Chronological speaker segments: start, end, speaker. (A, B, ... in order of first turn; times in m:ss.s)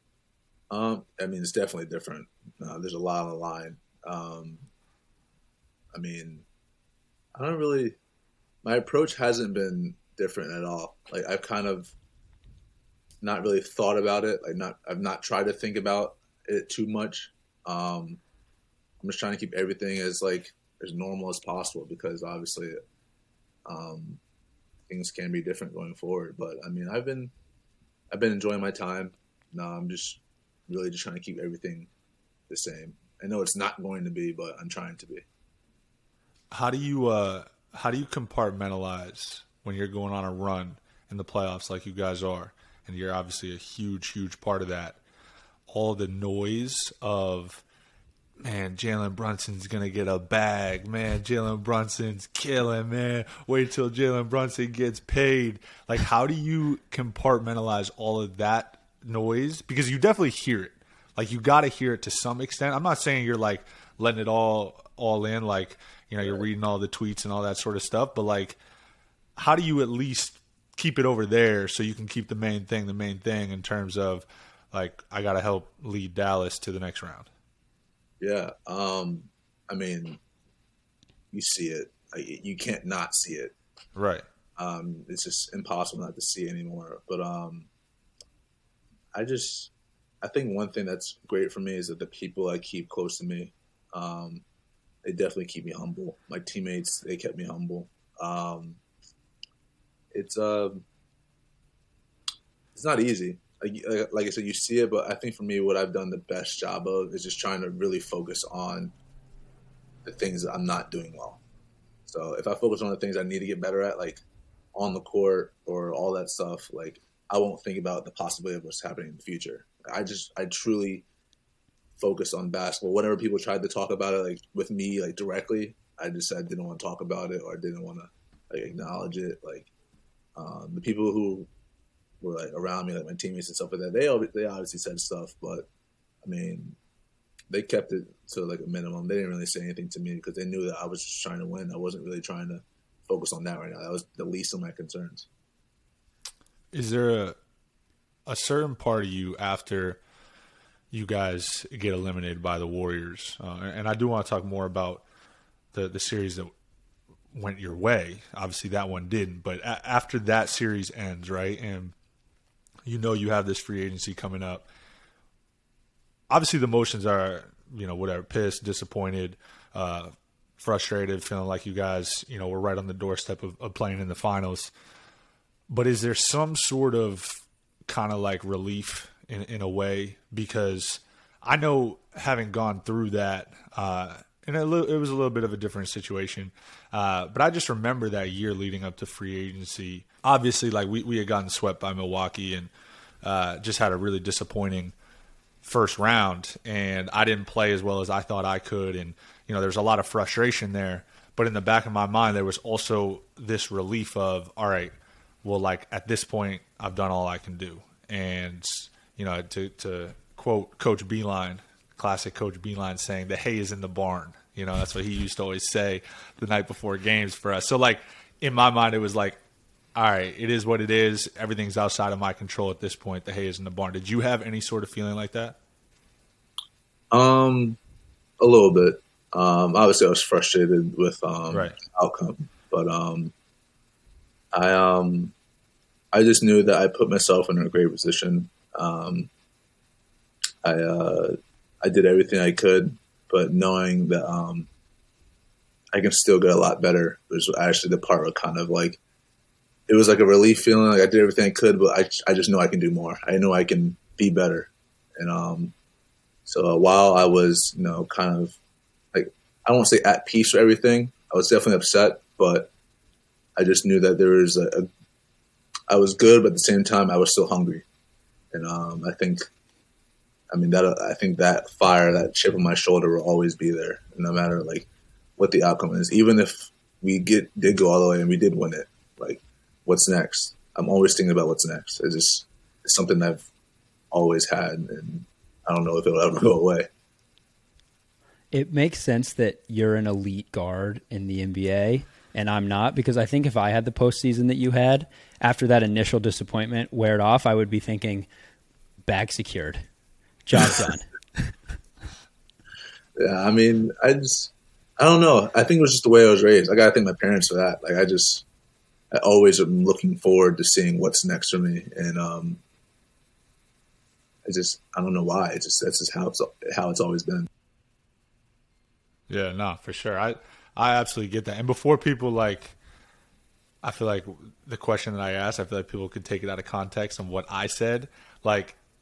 0:00.7-0:04.6 A
0:05.9-0:06.4 A
0:07.4-0:08.0 A
0:08.6-0:11.9 A
0:13.2-0:18.2 A
0:19.0-0:22.8 A
0:23.7-0:24.2 A
0:24.9-0:27.3 A
0:28.1-0:31.9 A
0:32.5-0:35.2 A
0:36.5-0:45.0 B
0:45.7-0:47.6 B
0:48.4-1:08.6 B
1:09.4-1:17.3 B
1:18.2-1:20.2 A
1:21.3-1:23.5 A
1:24.0-1:24.2 B
1:24.6-1:27.7 A
1:29.2-1:34.4 A
1:35.0-1:38.8 A
1:40.1-1:40.8 A
1:42.7-1:48.9 A
1:50.0-1:51.4 A
1:52.1-1:54.2 A
1:54.7-2:01.0 A
2:02.0-2:09.7 A
2:10.4-2:11.5 A
2:12.2-2:15.7 A
2:16.2-2:16.8 A
2:17.5-2:25.3 A
2:26.7-2:27.4 B
2:28.3-2:30.0 B
2:30.9-2:35.0 B
2:35.7-2:36.5 B
2:37.3-2:41.9 B
2:42.8-2:44.6 B
2:46.3-2:54.7 B
2:55.7-3:12.7 B
3:13.2-3:14.9 B
3:15.6-3:39.4 B
3:40.0-3:45.6 B
3:47.1-3:47.8 A
3:48.4-3:53.3 A
3:51.5-3:51.8 B
3:54.5-3:55.3 A
3:56.1-3:59.3 A
4:00.6-4:04.7 A
4:05.9-4:09.0 A
4:09.9-4:15.7 A
4:16.5-4:18.6 A
4:19.1-4:22.7 A
4:23.6-4:24.9 A
4:25.9-4:27.8 A
4:28.5-4:29.4 A
4:30.5-4:43.4 A
4:44.1-4:46.9 A
4:48.5-4:58.3 C
4:59.0-4:59.8 C
5:00.4-5:01.5 C
5:03.2-5:08.4 A
5:09.1-5:12.6 A
5:14.4-5:17.5 A
5:19.3-5:22.8 B
5:23.8-5:28.8 B